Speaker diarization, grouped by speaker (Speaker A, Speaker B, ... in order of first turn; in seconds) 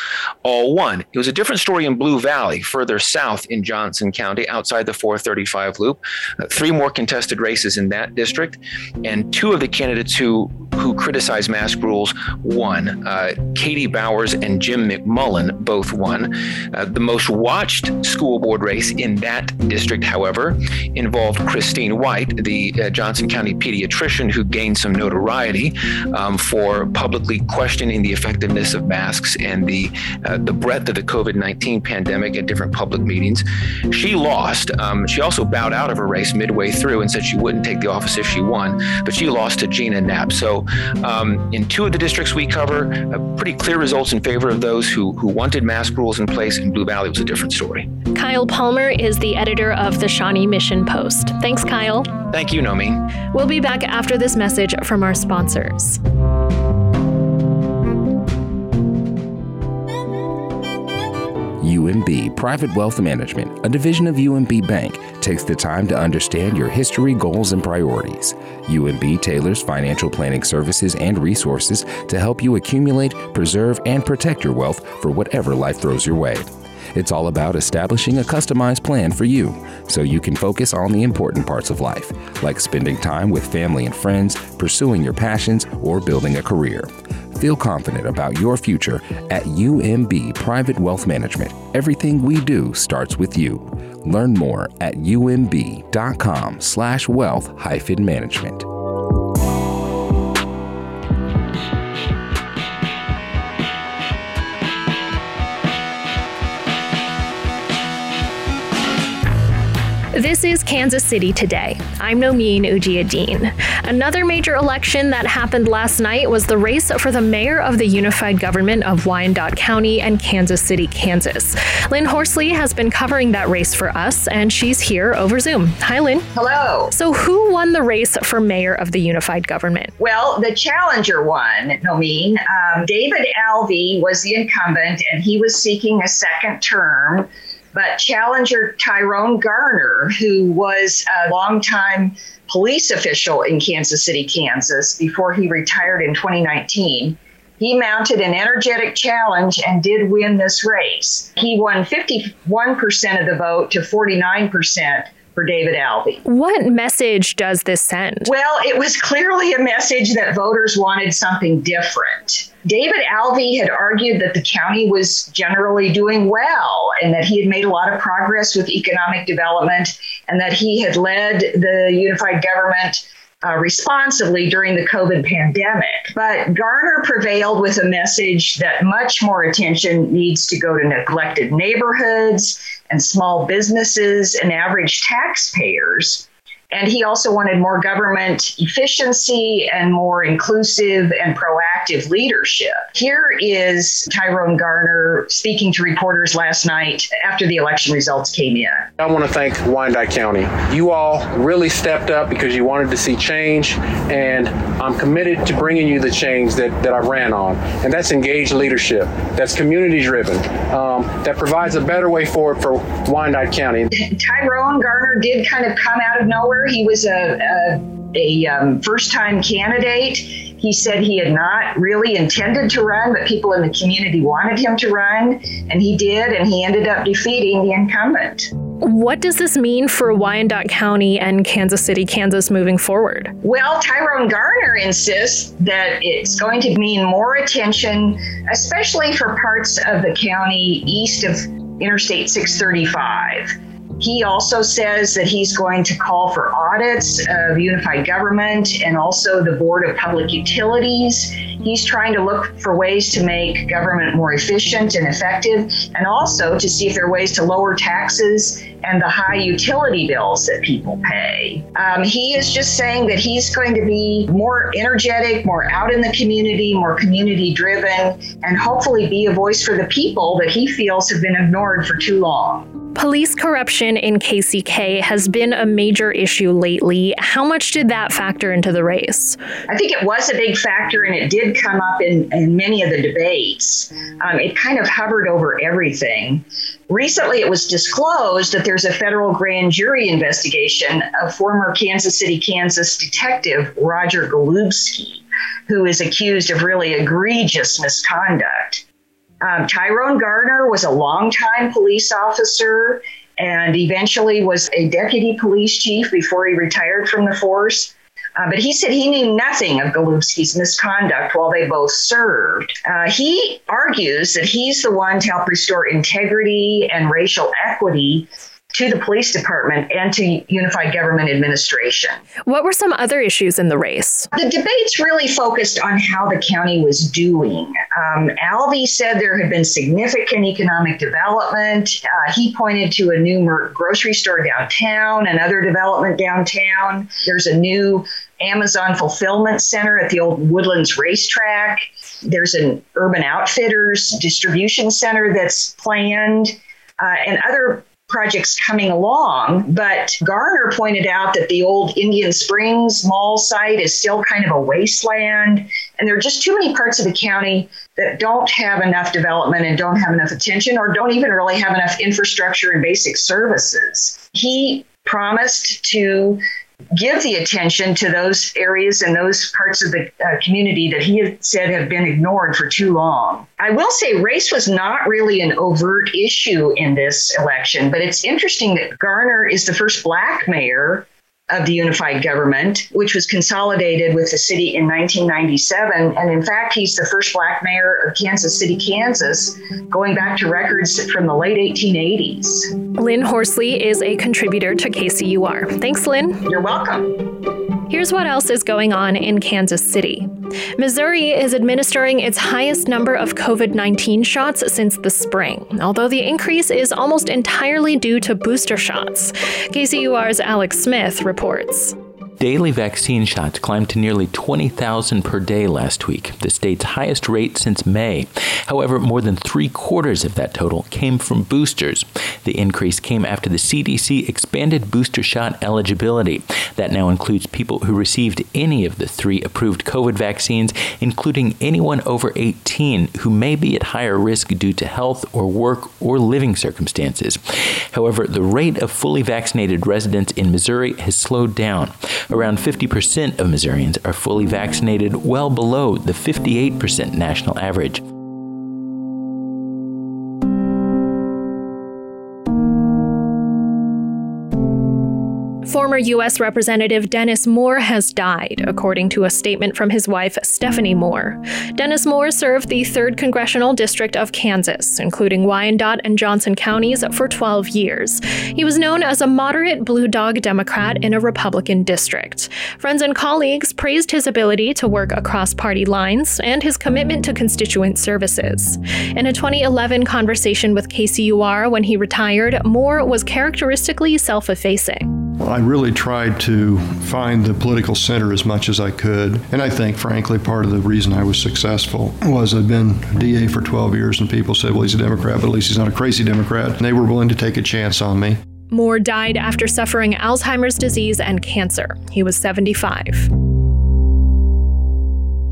Speaker A: 0.4-47.9, 52.3-53.0
Speaker B: 48.1-52.1, 53.3-56.0, 110.1-126.3, 126.9-129.9, 156.2-158.3, 228.8-233.3, 272.9-279.4, 322.5-324.3, 393.0-396.4, 397.9-411.9, 455.6-485.1, 498.7-503.3
Speaker C: 61.6-98.7
Speaker D: 126.3-126.9, 130.0-156.2, 158.2-198.9, 213.9-228.5, 233.4-272.7, 279.7-298.8, 299.4-322.2, 324.3-366.4, 367.0-392.7, 396.5-397.2
Speaker E: 199.0-213.9
Speaker F: 412.4-448.0
Speaker G: 485.4-498.4